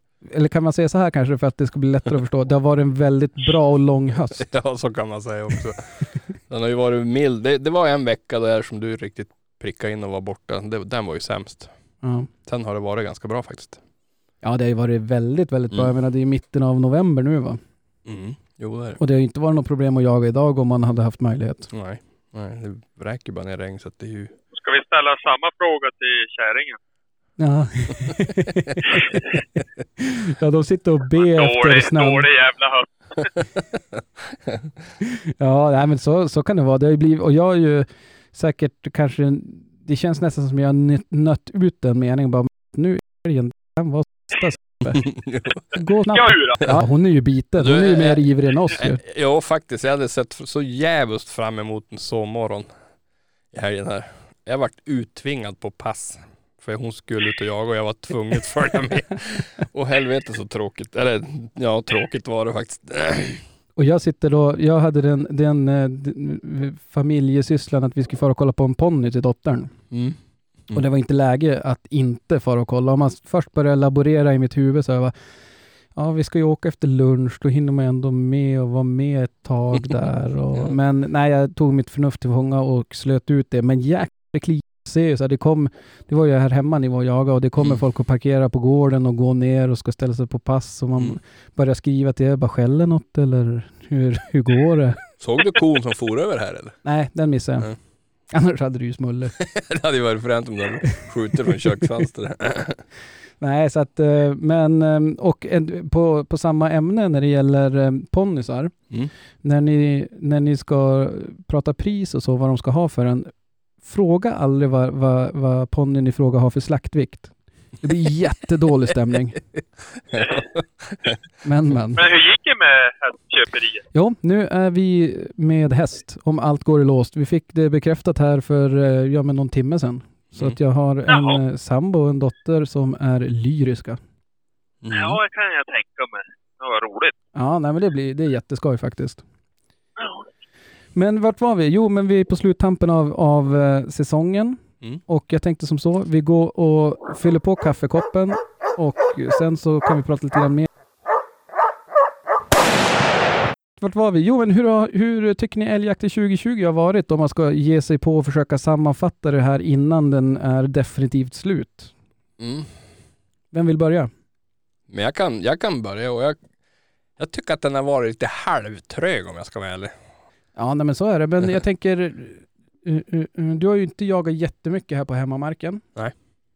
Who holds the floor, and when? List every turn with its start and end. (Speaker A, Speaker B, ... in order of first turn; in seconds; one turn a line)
Speaker A: 0.2-4.5
Speaker B: 4.4-11.7
Speaker A: 12.0-12.3
Speaker B: 12.4-13.8
Speaker A: 14.4-17.6
Speaker B: 18.1-19.0
Speaker A: 19.0-21.7
Speaker B: 21.7-24.3
Speaker C: 24.5-26.8
Speaker A: 27.4-29.0
Speaker C: 28.9-29.3
Speaker A: 30.0-32.3
Speaker C: 31.2-33.4
Speaker A: 35.0-45.1
Speaker B: 44.9-45.6
Speaker A: 45.7-49.0
Speaker C: 46.1-46.6
Speaker B: 47.6-52.7
Speaker B: 53.5-63.4
Speaker A: 63.8-69.8
Speaker B: 69.9-70.2
Speaker A: 70.7-75.1
Speaker A: 75.9-95.0
Speaker B: 95.2-96.8
Speaker A: 96.8-97.7
Speaker A: 98.3-99.3
Speaker B: 99.4-102.9
Speaker A: 103.4-108.8
Speaker A: 109.4-119.4
Speaker B: 120.1-121.2
Speaker C: 120.2-120.5
Speaker A: 121.4-122.0
Speaker C: 122.0-123.8
Speaker A: 123.9-134.0
Speaker C: 131.1-131.4
Speaker B: 134.8-135.2
Speaker C: 134.9-137.1
Speaker A: 137.3-139.2
Speaker C: 140.0-140.3
Speaker A: 140.9-150.7
Speaker A: 153.8-161.9
Speaker B: 162.4-162.8
Speaker A: 163.5-164.1
Speaker B: 164.9-166.4
Speaker B: 167.2-169.9
Speaker A: 170.6-175.8